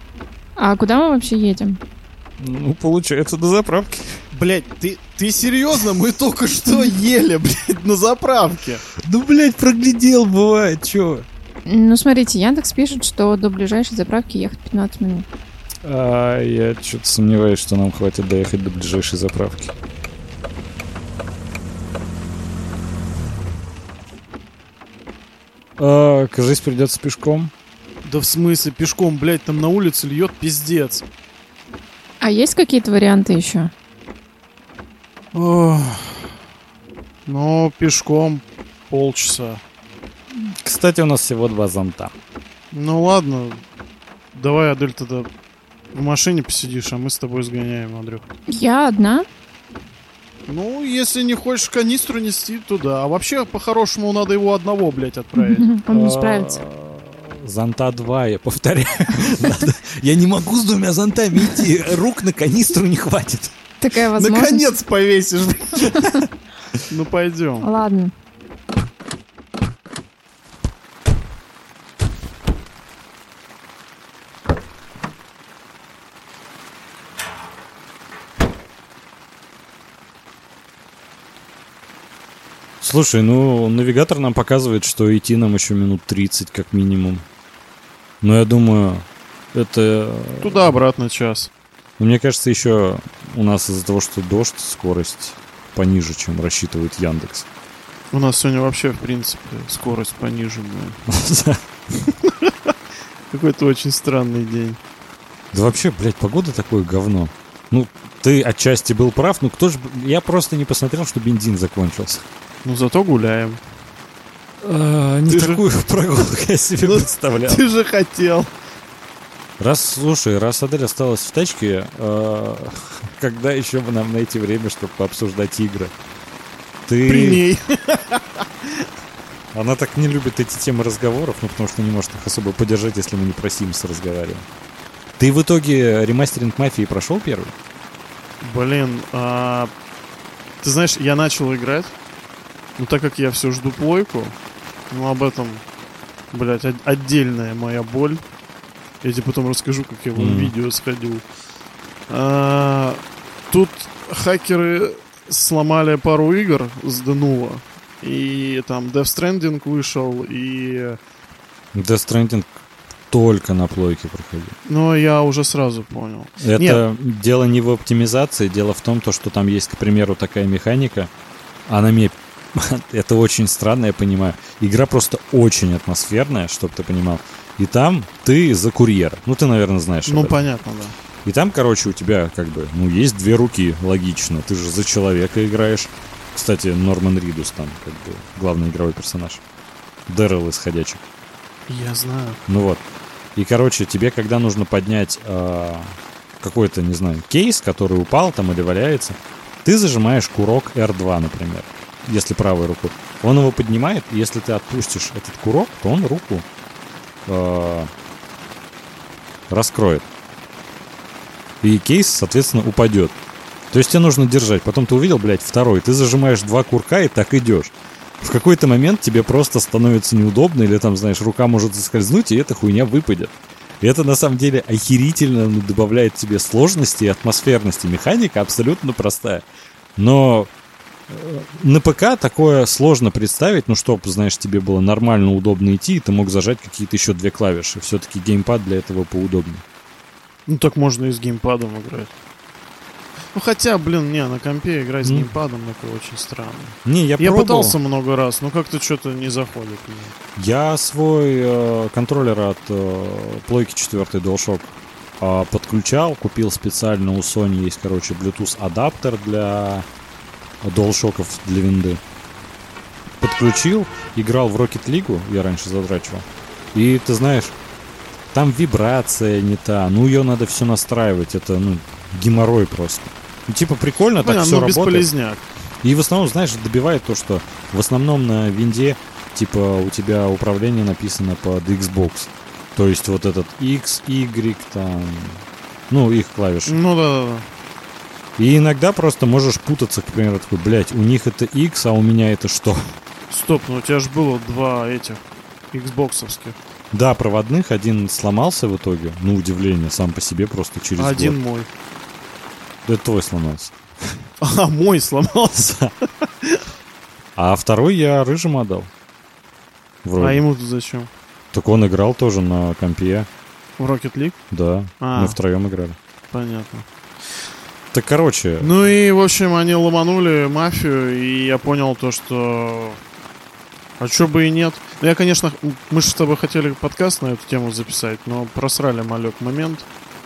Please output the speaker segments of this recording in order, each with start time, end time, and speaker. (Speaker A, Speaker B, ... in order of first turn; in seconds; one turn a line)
Speaker A: 0.6-1.8
Speaker B: 2.4-4.2
Speaker C: 4.3-8.8
Speaker B: 9.0-11.3
Speaker A: 11.7-15.3
Speaker B: 15.8-19.8
Speaker B: 25.8-27.5
Speaker C: 28.0-31.1
Speaker A: 32.2-33.7
Speaker C: 35.3-36.4
Speaker C: 37.3-39.6
Speaker B: 40.6-42.1
Speaker C: 42.7-43.6
Speaker C: 44.3-45.3
Speaker C: 45.9-48.3
Speaker A: 48.5-49.3
Speaker C: 50.5-55.7
Speaker A: 55.4-56.6
Speaker B: 55.9-63.5
Speaker A: 63.8-64.8
Speaker C: 64.2-66.2
Speaker A: 65.9-66.2
Speaker C: 66.9-67.7
Speaker A: 67.6-68.1
Speaker B: 82.8-87.3
Speaker B: 88.2-90.8
Speaker C: 90.4-91.5
Speaker B: 92.0-97.5
Speaker C: 98.1-101.0
Speaker B: 101.1-101.6
Speaker C: 102.1-102.7
Speaker C: 103.3-104.8
Speaker B: 105.5-112.3
Speaker C: 112.6-113.6
Speaker B: 114.6-117.6
Speaker C: 115.3-115.6
Speaker C: 116.8-118.5
Speaker B: 119.6-125.9
Speaker B: 126.9-127.4
Speaker C: 127.1-128.9
Speaker B: 129.5-134.5
Speaker B: 135.2-137.5
Speaker C: 138.4-139.7
Speaker C: 140.6-141.9
Speaker C: 142.8-144.4
Speaker C: 144.9-145.6
Speaker C: 146.3-148.2
Speaker C: 149.0-151.2
Speaker B: 150.2-150.5
Speaker C: 152.1-161.0
Speaker B: 161.8-162.6
Speaker B: 163.1-164.6
Speaker C: 164.7-166.8
Speaker B: 166.4-171.1
Speaker B: 171.7-180.4
Speaker C: 180.1-180.9
Speaker B: 181.2-189.4
Speaker B: 190.1-191.1
Speaker C: 191.7-192.4
Speaker B: 192.5-192.8
Speaker B: 193.3-206.5
Speaker B: 207.3-207.9
Speaker B: 209.5-210.1
Speaker B: 211.6-213.2
Speaker B: 213.7-229.4
Speaker B: 230.0-230.5
Speaker B: 231.1-239.6
Speaker C: 240.5-242.1
Speaker C: 243.3-250.2
Speaker B: 245.1-245.3
Speaker B: 246.8-247.8
Speaker B: 250.4-259.9
Speaker B: 260.6-262.0
Speaker B: 263.2-267.6
Speaker B: 268.3-275.1
Speaker C: 274.2-275.4
Speaker B: 275.8-286.8
Speaker C: 286.7-287.5
Speaker B: 288.4-293.0
Speaker C: 293.3-296.6
Speaker B: 296.9-301.4
Speaker C: 301.0-301.7
Speaker B: 302.9-303.8
Speaker C: 304.4-306.6
Speaker B: 305.6-305.9
Speaker B: 307.4-308.9
Speaker B: 310.1-310.4
Speaker C: 310.2-311.1
Speaker B: 311.5-313.3
Speaker C: 313.8-314.4
Speaker B: 314.5-316.0
Speaker C: 315.0-315.4
Speaker C: 316.3-316.9
Speaker B: 317.9-318.7
Speaker C: 318.6-323.0
Speaker C: 324.0-329.9